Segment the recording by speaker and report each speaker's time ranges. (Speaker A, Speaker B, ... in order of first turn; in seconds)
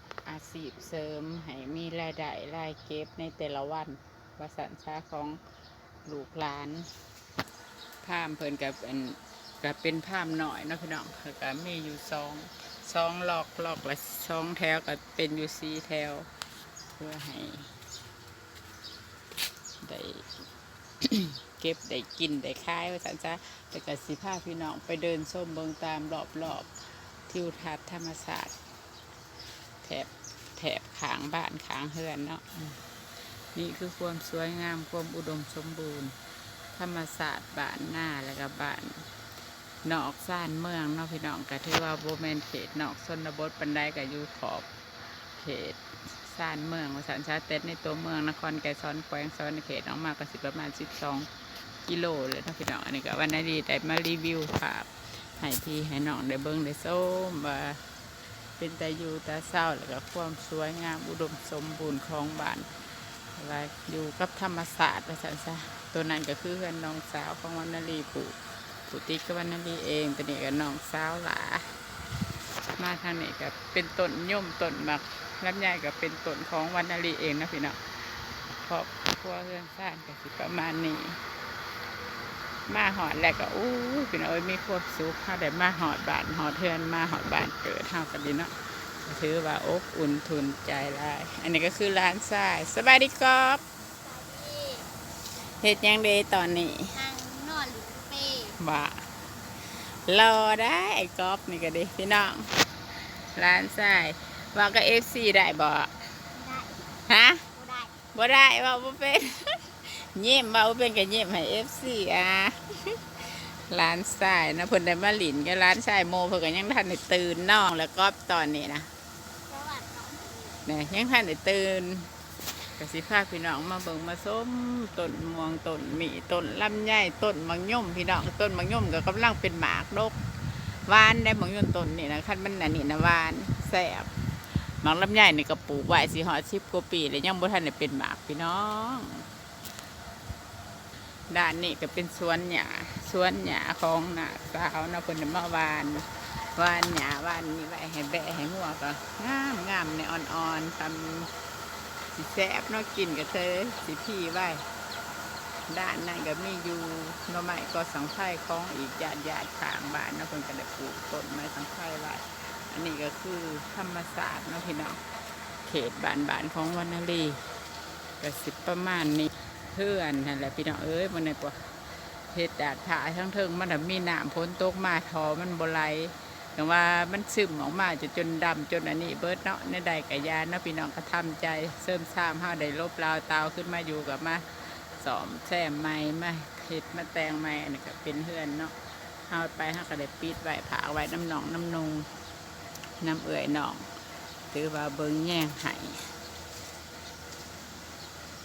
Speaker A: 0.2-5.4, 6.0-6.9, 8.0-16.3, 17.0-17.7, 19.8-20.5, 21.0-28.6, 29.8-32.8, 33.5-36.2, 36.8-39.1, 39.8-51.3, 51.9-57.9, 58.6-62.8, 63.4-71.8, 72.8-81.2, 82.7-93.6, 95.3-97.0, 98.5-106.2, 107.1-107.5, 108.1-118.9, 120.6-122.1, 122.8-139.3, 141.3-151.3, 152.1-154.7, 155.7-165.0, 165.6-167.5, 168.2-192.1, 193.0-193.9, 194.5-196.2
Speaker B: 94.0-94.9, 96.9-98.5, 106.3-106.9, 107.5-108.0, 119.5-120.6